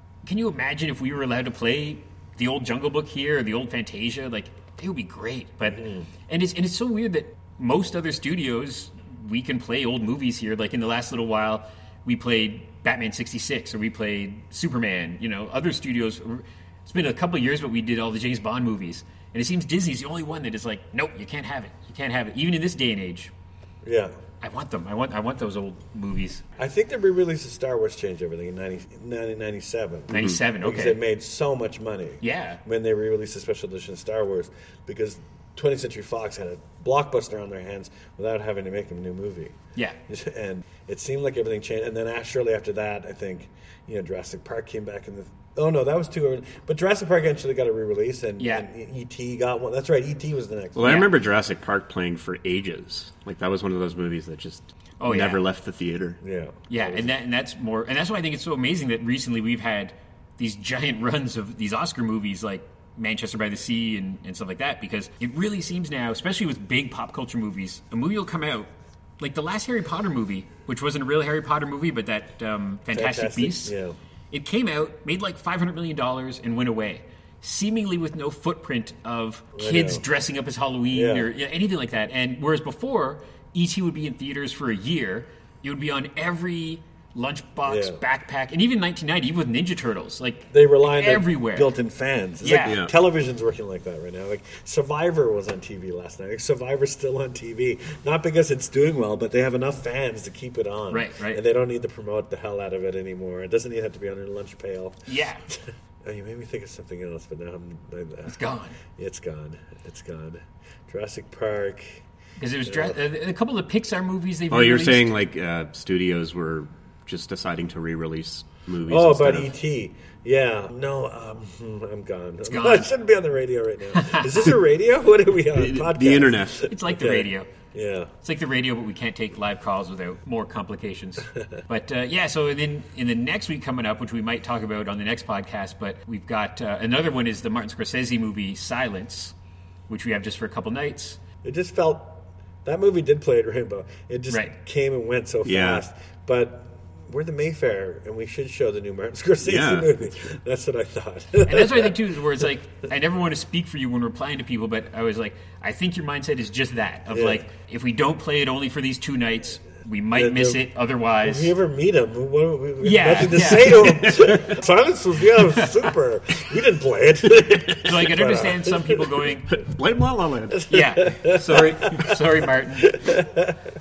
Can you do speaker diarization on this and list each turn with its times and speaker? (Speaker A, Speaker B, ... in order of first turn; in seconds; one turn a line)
Speaker A: 0.2-23.3
Speaker B: 5.7-6.1
Speaker B: 23.8-24.1
Speaker A: 24.4-26.4
Speaker B: 26.6-39.5
Speaker A: 30.1-31.0
Speaker A: 32.2-32.6
Speaker B: 40.1-51.0
Speaker A: 48.4-48.6
Speaker C: 50.7-56.2
Speaker A: 50.8-51.1
Speaker A: 55.0-55.4
Speaker B: 56.2-57.1
Speaker A: 56.7-73.7
Speaker B: 72.9-74.0
Speaker A: 74.3-91.7
Speaker B: 79.5-80.0
Speaker B: 80.9-81.3
Speaker B: 87.7-88.0
Speaker B: 90.5-112.0
Speaker A: 92.4-92.8
Speaker C: 92.7-92.9
Speaker A: 100.9-101.4
Speaker A: 105.0-105.4
Speaker A: 108.3-108.8
Speaker A: 112.4-115.1
Speaker B: 112.7-113.0
Speaker C: 114.5-119.5
Speaker B: 118.9-128.1
Speaker A: 122.5-122.9
Speaker A: 123.9-124.5
Speaker C: 125.5-126.7
Speaker A: 126.7-127.5
Speaker A: 128.2-139.3
Speaker A: 139.9-141.2
Speaker B: 141.4-151.9
Speaker C: 145.4-145.8
Speaker C: 149.4-150.0
Speaker A: 151.4-161.5
Speaker B: 157.1-157.4
Speaker B: 160.1-160.7
Speaker B: 161.2-169.3
Speaker A: 162.8-164.2
Speaker C: 164.1-164.4
Speaker A: 167.8-169.5
Speaker C: 169.5-170.8
Speaker B: 170.5-172.2
Speaker A: 170.7-173.0
Speaker B: 172.8-173.6